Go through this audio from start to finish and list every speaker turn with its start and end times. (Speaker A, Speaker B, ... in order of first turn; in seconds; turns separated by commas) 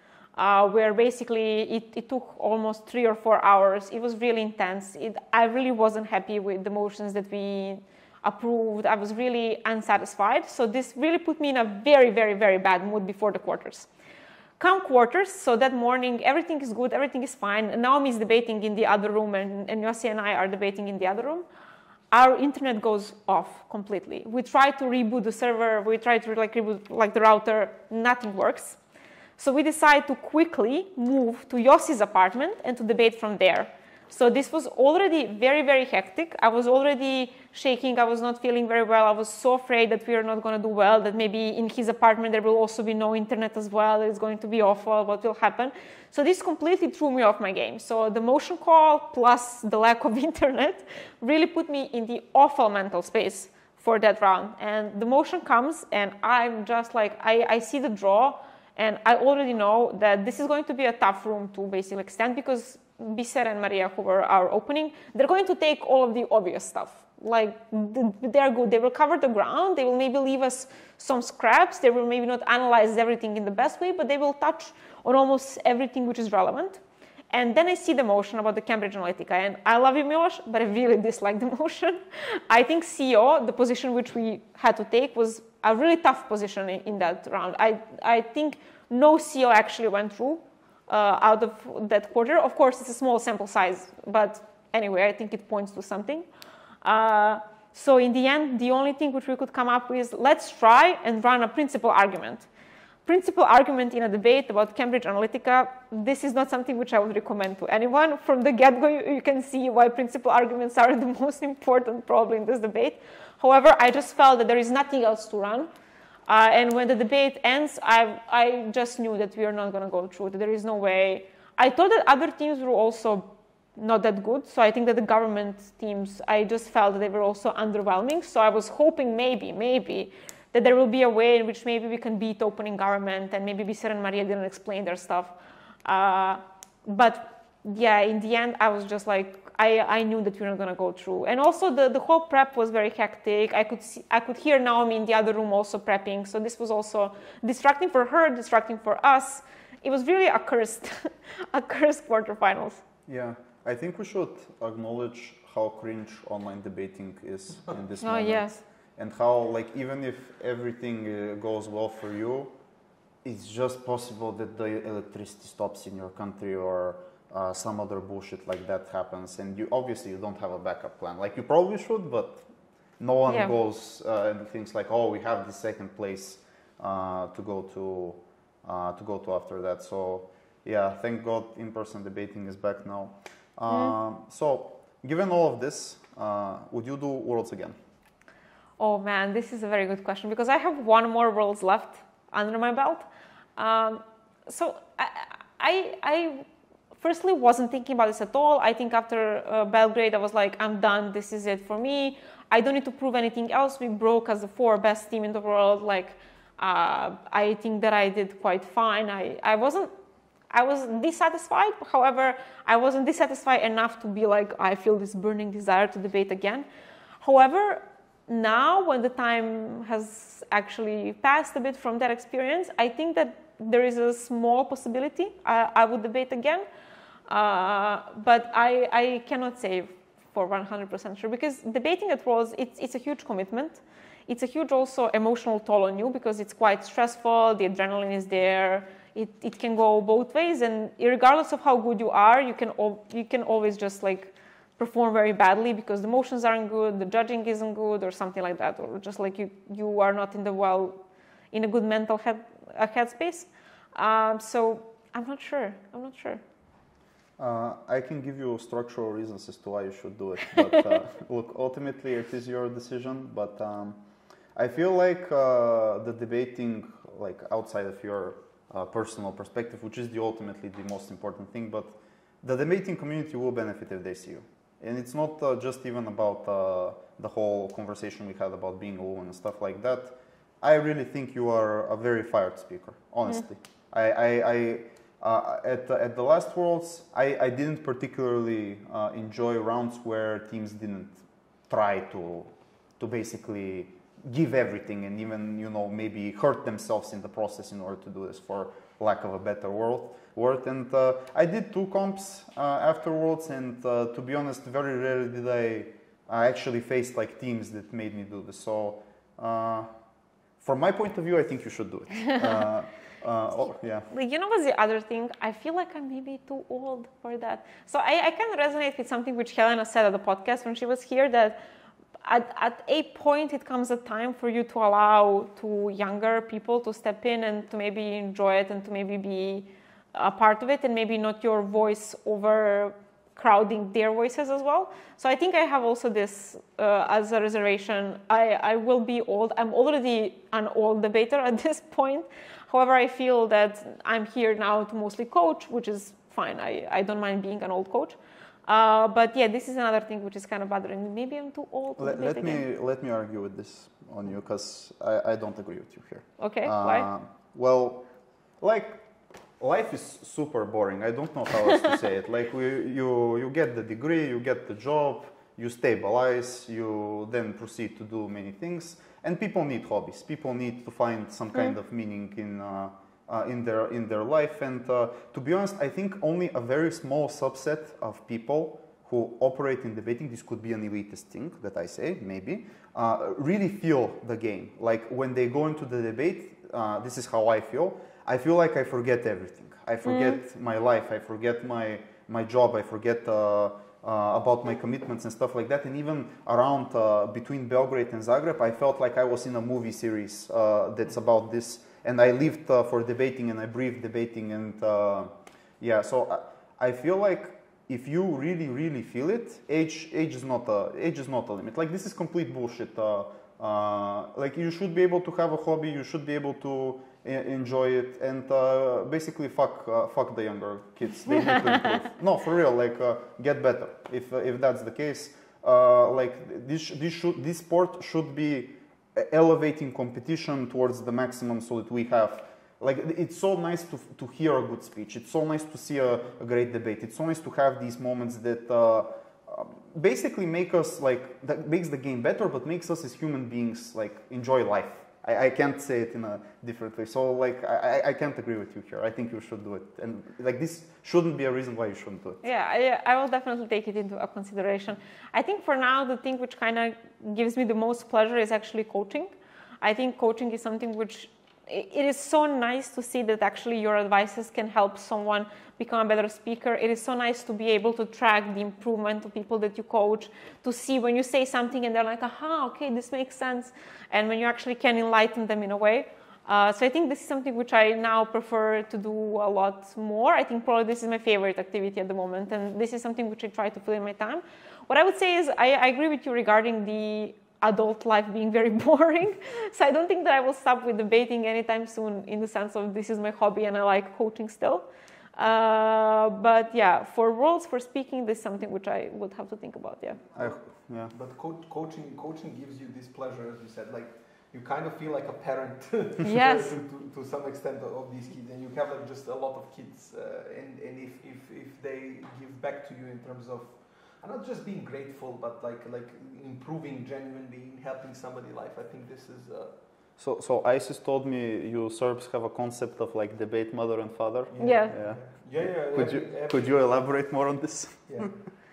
Speaker A: 0.3-13.9, Speaker A: 14.6-21.4, Speaker A: 22.1-28.8, Speaker A: 29.4-96.2, Speaker A: 96.8-102.5, Speaker A: 103.0-115.7, Speaker A: 116.3-152.8, Speaker B: 153.1-162.5, Speaker A: 158.0-158.6, Speaker B: 163.2-172.5, Speaker B: 173.0-187.8, Speaker A: 173.3-173.5, Speaker A: 183.7-183.9, Speaker A: 188.8-196.4, Speaker A: 197.0-209.9, Speaker A: 210.5-216.7, Speaker A: 217.2-226.6, Speaker A: 227.3-251.0, Speaker A: 251.5-256.4, Speaker B: 257.4-264.0, Speaker B: 264.5-309.9, Speaker B: 310.6-314.1, Speaker A: 314.1-321.6, Speaker A: 322.2-352.6, Speaker B: 352.0-358.1, Speaker A: 356.4-357.1, Speaker B: 358.6-359.0, Speaker B: 359.6-452.4, Speaker A: 390.0-390.4, Speaker A: 452.4-494.8, Speaker A: 495.4-500.2, Speaker B: 500.3-501.1, Speaker C: 500.4-519.7, Speaker A: 506.2-506.8, Speaker B: 520.2-525.2, Speaker C: 524.5-526.8, Speaker A: 524.6-524.9, Speaker B: 525.9-528.3, Speaker C: 528.1-528.3